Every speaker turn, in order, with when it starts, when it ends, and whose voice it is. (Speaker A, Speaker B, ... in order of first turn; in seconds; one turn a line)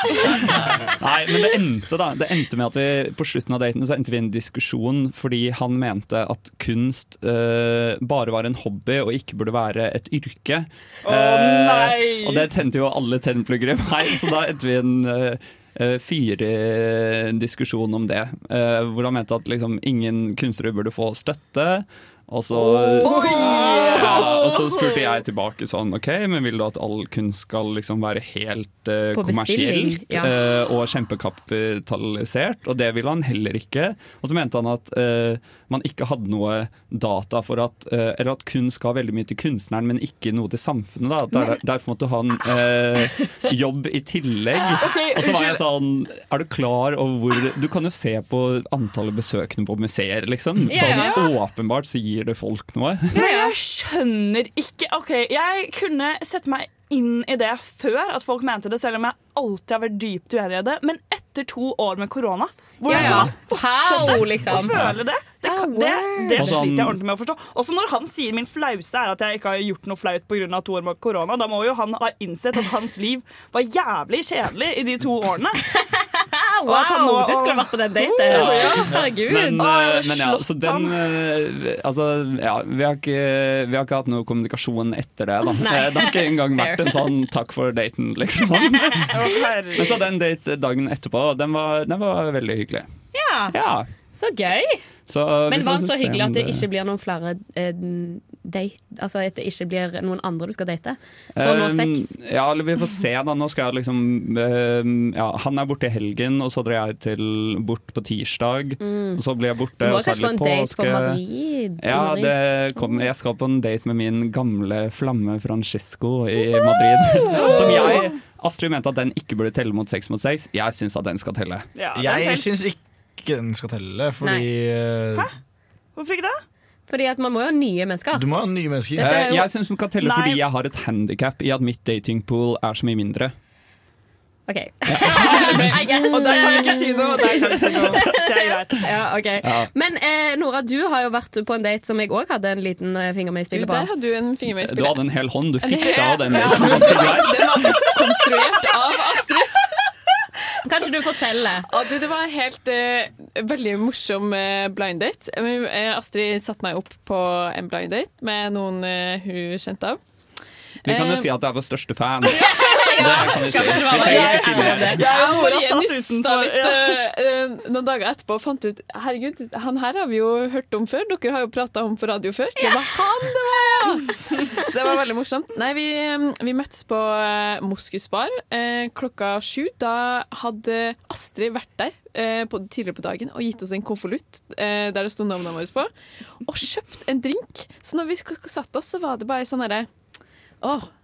Speaker A: 0.2-53.1
Speaker B: 11.0-12.5
Speaker C: 22.6-24.8
Speaker B: 23.0-24.4
Speaker C: 29.1-30.3
Speaker B: 44.8-45.6
Speaker C: 50.7-51.3
Speaker D: 50.9-51.2
Speaker B: 53.1-75.6
Speaker C: 53.1-53.5
Speaker C: 62.9-64.8
Speaker A: 62.9-63.3
Speaker A: 64.6-65.0
Speaker C: 65.4-66.6
Speaker A: 66.3-67.0
Speaker C: 75.8-79.7
Speaker B: 76.7-77.8
Speaker A: 78.3-92.9
Speaker B: 78.3-78.9
Speaker B: 79.6-81.0
Speaker C: 85.6-87.1
Speaker B: 89.0-90.1
Speaker C: 93.1-93.5
Speaker A: 93.5-93.9
Speaker C: 94.1-94.8
Speaker A: 95.1-96.6
Speaker C: 95.5-102.1
Speaker A: 101.3-111.2
Speaker C: 108.8-109.2
Speaker C: 109.8-113.0
Speaker A: 111.8-121.7
Speaker C: 117.2-118.0
Speaker B: 117.4-117.8
Speaker B: 121.7-122.5
Speaker E: 121.9-125.3
Speaker C: 124.2-124.5
Speaker B: 126.0-126.4
Speaker C: 126.9-128.3
Speaker E: 128.1-129.3
Speaker C: 128.9-129.5
Speaker A: 129.0-133.3
Speaker B: 130.0-130.4
Speaker C: 134.5-143.9
Speaker A: 134.9-135.8
Speaker B: 136.0-138.9
Speaker A: 139.4-139.7
Speaker D: 143.5-145.0
Speaker A: 144.6-147.9
Speaker D: 145.6-149.6
Speaker C: 145.7-147.2
Speaker C: 150.6-151.7
Speaker D: 151.7-160.0
Speaker D: 160.8-161.3
Speaker A: 160.8-165.1
Speaker C: 162.3-165.0
Speaker B: 163.9-167.0
Speaker D: 163.9-185.9
Speaker C: 172.6-173.0
Speaker D: 186.4-189.9
Speaker D: 190.6-190.9